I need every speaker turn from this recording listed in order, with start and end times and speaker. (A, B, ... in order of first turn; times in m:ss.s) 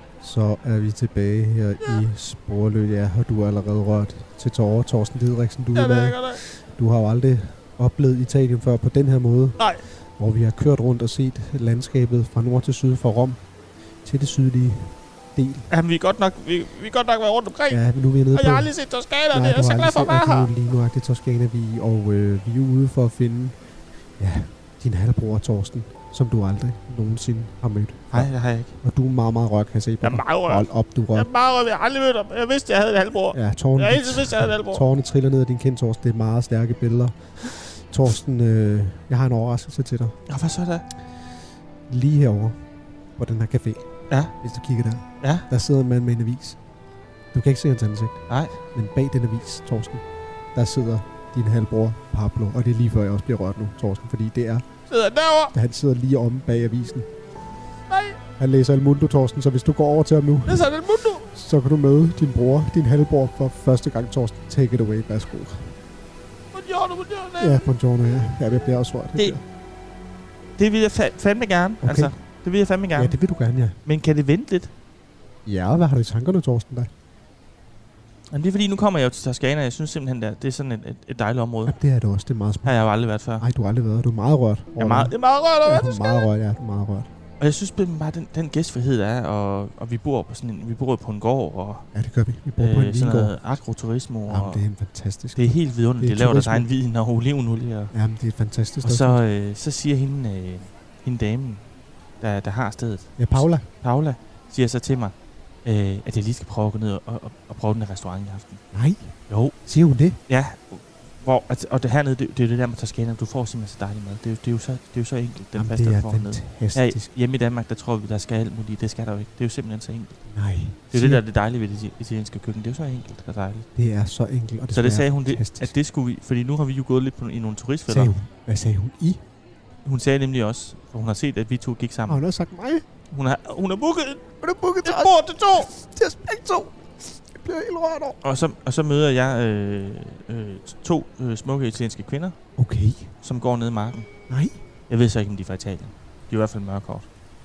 0:00.2-0:13.4 A
0:05.7-0:06.4 B
0:09.6-0:09.8 B
0:14.0-0:15.7 A
0:15.7-0:17.8 B
0:17.7-0:23.6 A
0:18.3-0:20.5 B
0:24.2-0:31.3 A
0:28.1-0:28.8 B
0:30.0-0:34.8 B
0:33.3-0:40.2 A
0:40.3-0:40.9 B
0:41.9-0:42.6 A
0:43.2-0:46.6 A
0:44.1-0:44.4 B
0:45.2-0:45.5 B
0:47.3-0:54.6 A
0:48.3-0:48.6 B
0:54.9-0:55.5 B
0:55.5-0:57.1 A
0:57.9-0:58.2 B
0:58.4-1:00.7 A
1:00.5-1:01.3 B
1:01.3-1:05.8 A
1:06.5-1:07.6 B
1:07.4-1:09.4 A
1:10.6-1:13.2 B
1:11.8-1:12.1 A
1:12.9-1:13.8 A
1:13.8-1:14.7 B
1:15.5-1:16.9 A
1:18.3-1:21.8 B
1:21.7-1:27.1 A
1:22.6-1:23.4 B
1:24.8-1:26.3 B
1:27.4-1:31.9 B
1:31.9-1:33.4 A
1:32.6-1:34.6 B
1:34.3-1:36.7 A
1:35.4-1:37.9 B
1:37.9-1:39.2 A
1:38.8-1:41.6 B
1:42.2-1:48.6 B
1:43.2-1:43.7 A
1:48.7-1:50.2 A
1:49.3-1:49.6 B
1:50.3-2:00.3 B
1:55.6-1:57.1 A
2:00.3-2:01.2 A
2:00.9-2:03.7 B
2:03.8-2:05.7 A
2:04.7-2:08.1 B
2:07.9-2:09.2 A
2:09.8-2:12.2 B
2:12.1-2:12.8 A
2:13.1-2:14.2 B
2:14.4-2:18.2 A
2:14.8-2:15.7 B
2:18.2-2:22.4 B
2:22.6-2:23.1 A
2:23.2-2:24.1 B
2:24.3-2:24.6 A
2:24.9-2:27.1 B